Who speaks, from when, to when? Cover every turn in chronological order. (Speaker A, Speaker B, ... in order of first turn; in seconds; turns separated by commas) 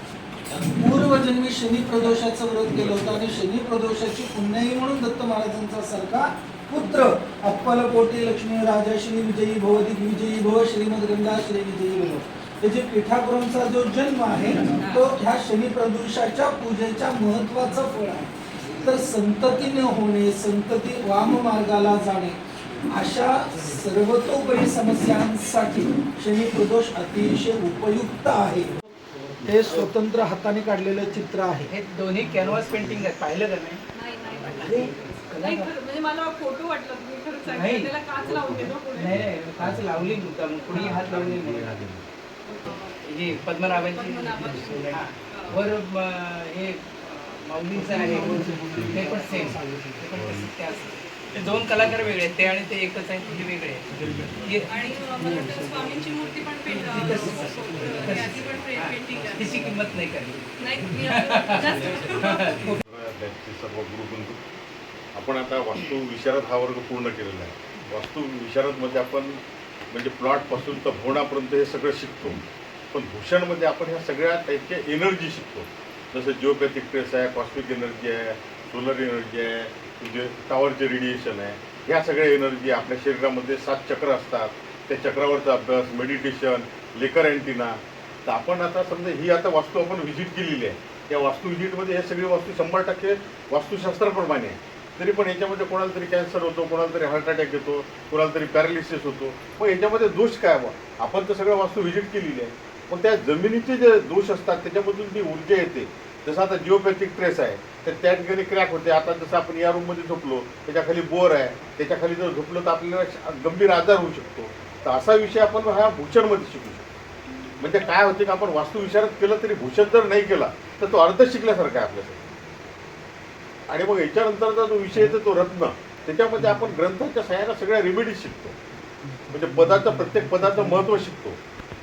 Speaker A: 0.6-22.4, Speaker A: 22.9-28.8, Speaker A: 29.4-31.7, Speaker B: 31.7-33.8, Speaker C: 33.9-39.2, Speaker B: 34.5-35.8, Speaker B: 37.5-38.0, Speaker B: 38.9-41.8, Speaker C: 42.5-42.9, Speaker B: 43.0-53.9, Speaker C: 43.5-45.6, Speaker C: 48.0-48.3, Speaker C: 48.9-49.5, Speaker B: 54.4-55.5, Speaker C: 54.7-59.7, Speaker B: 56.7-62.8, Speaker C: 60.6-62.7, Speaker D: 62.8-64.4, Speaker D: 65.1-69.4, Speaker D: 69.9-72.4, Speaker D: 72.9-116.8, Speaker D: 117.6-122.2, Speaker D: 123.7-128.6, Speaker D: 129.3-131.4